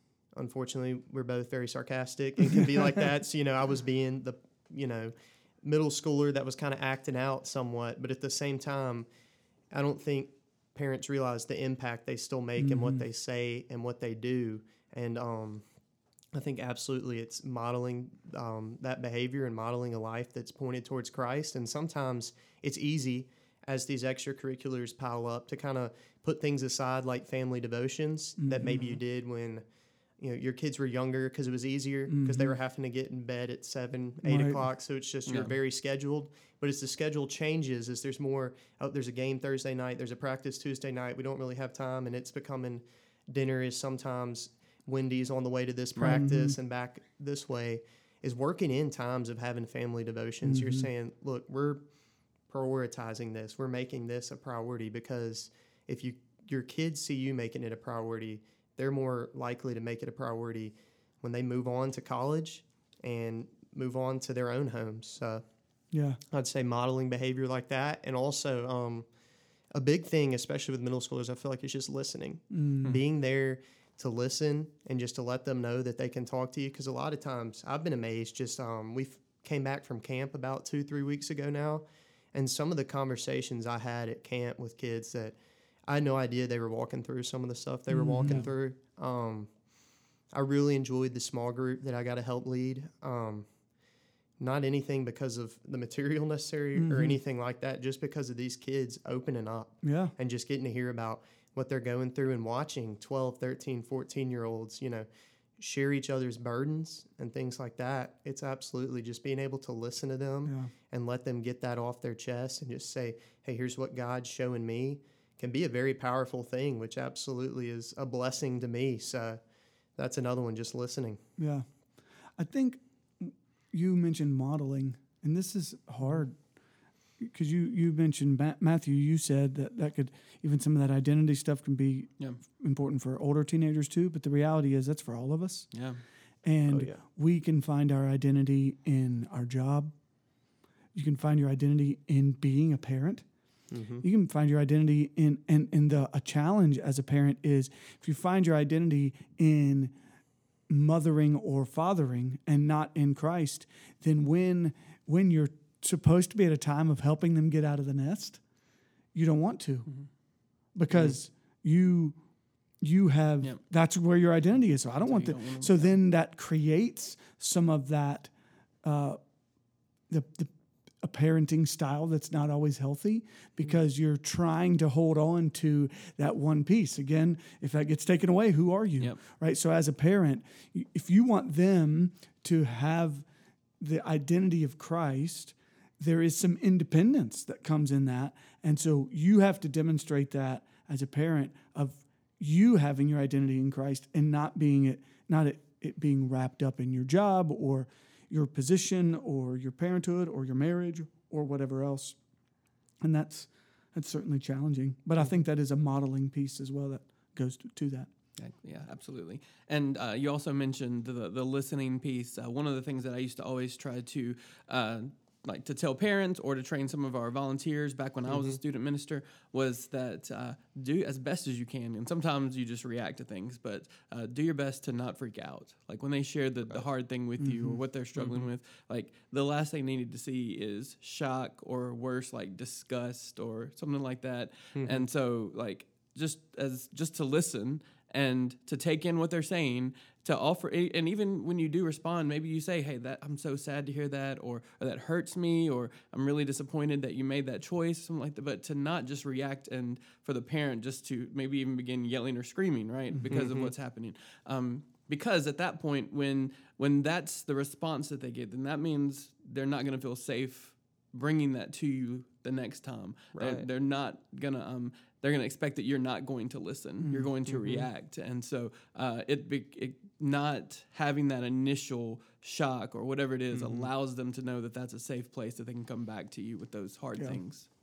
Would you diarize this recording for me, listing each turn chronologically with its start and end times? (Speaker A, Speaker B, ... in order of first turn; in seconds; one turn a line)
Speaker A: 0.3-9.1
Speaker A: 9.7-15.6
Speaker B: 12.6-13.0
Speaker A: 16.3-29.6
Speaker B: 28.4-28.8
Speaker A: 30.2-51.8
Speaker B: 32.1-32.5
Speaker B: 34.2-34.6
Speaker C: 35.3-35.5
Speaker B: 46.0-46.5
Speaker B: 50.4-50.9
Speaker A: 52.5-65.4
Speaker B: 65.9-66.2
Speaker A: 66.3-69.1
Speaker A: 69.7-89.5
Speaker B: 72.5-73.0
Speaker B: 87.9-88.5
Speaker C: 88.2-88.5
Speaker A: 90.3-93.5
Speaker A: 94.4-119.4
Speaker B: 96.8-97.2
Speaker B: 99.8-100.1
Speaker B: 110.5-110.7
Speaker A: 119.9-121.2
Speaker B: 121.4-121.7
Speaker B: 122.3-126.4
Speaker B: 127.2-135.7
Speaker C: 135.7-136.0
Speaker B: 136.4-139.9
Speaker A: 136.7-137.0
Speaker B: 140.9-143.2
Speaker A: 143.7-144.0
Speaker B: 144.0-149.9
Speaker B: 150.7-158.4
Speaker B: 159.1-159.9
Speaker B: 160.7-162.2
Speaker B: 162.8-168.3
Speaker C: 165.0-166.0
Speaker B: 168.8-169.2
Speaker B: 170.1-183.2
Speaker B: 183.8-202.2
Speaker B: 203.0-208.1
Speaker C: 208.4-277.7
Speaker A: 218.2-218.6
Speaker B: 227.4-227.8
Speaker A: 228.2-228.4
Speaker A: 234.7-235.1
Speaker A: 253.3-253.7
Speaker A: 263.3-263.7
Speaker B: 267.0-267.3
Speaker A: 267.5-267.9
Speaker A: 273.5-273.9